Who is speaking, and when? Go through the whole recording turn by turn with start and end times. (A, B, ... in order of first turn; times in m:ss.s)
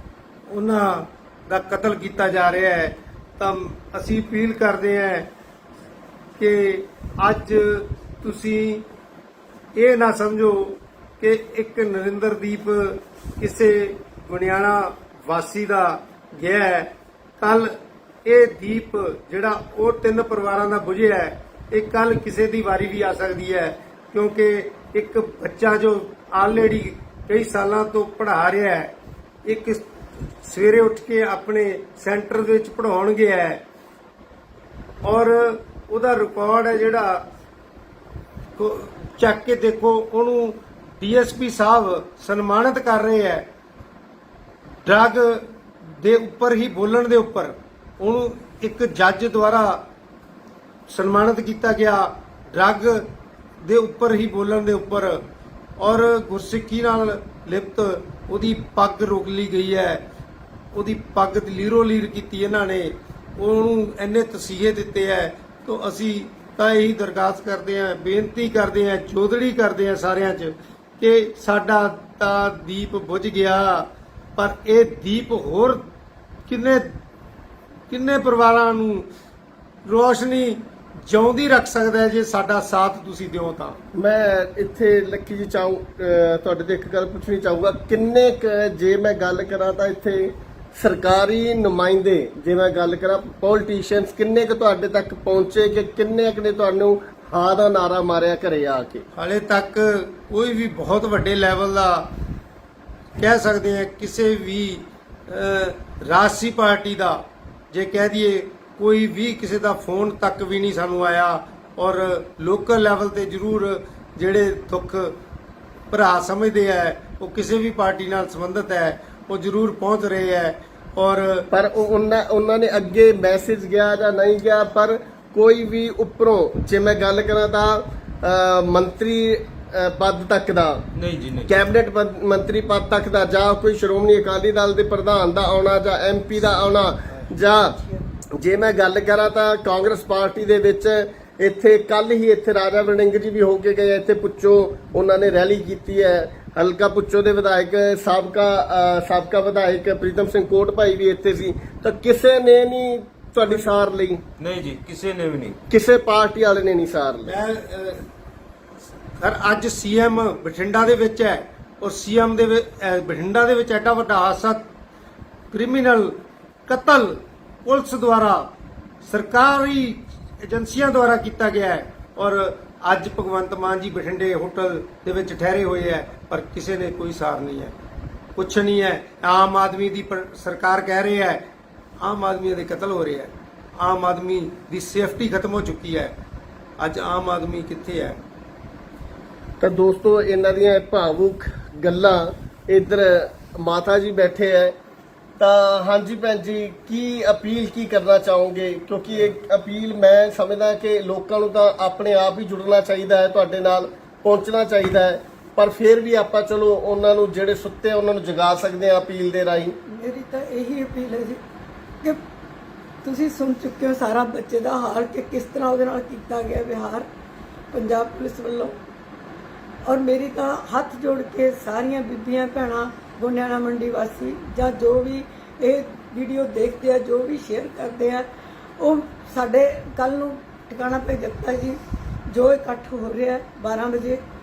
0:00.5-0:05.3 A
0:06.4-0:08.9 A
0:09.7-0:28.9 A
0:29.4-0:33.6 A
0:35.0-0:37.2 A
0:38.6-0:43.5 A
0:44.8-0:45.5 A
0:46.0-0:49.8 A
0:50.9-0:53.1 A
0:53.6-0:55.2 A
0:55.8-1:00.0 A
1:00.7-1:15.8 A
1:16.5-1:16.9 A
1:17.9-1:19.0 A
1:19.8-1:23.8 A
1:23.9-1:39.0 B
1:39.1-1:42.1 A
1:43.2-1:55.1 A
1:55.9-2:01.5 A
2:01.5-2:10.8 B
2:10.9-2:11.6 C
2:11.4-2:17.8 B
2:18.4-2:34.2 B
2:34.4-2:35.6 C
2:35.7-2:37.3 B
2:37.2-2:38.0 A
2:39.2-2:44.6 A
2:45.5-2:48.5 A
2:49.0-2:57.7 A
2:58.4-3:01.4 A
3:02.0-3:06.1 A
3:06.8-3:08.2 A
3:09.6-3:14.7 B
3:15.4-3:29.8 B
3:29.9-3:31.4 D
3:33.0-3:37.0 D
3:37.7-3:38.8 D
3:39.8-3:48.2 D
3:48.8-3:54.2 D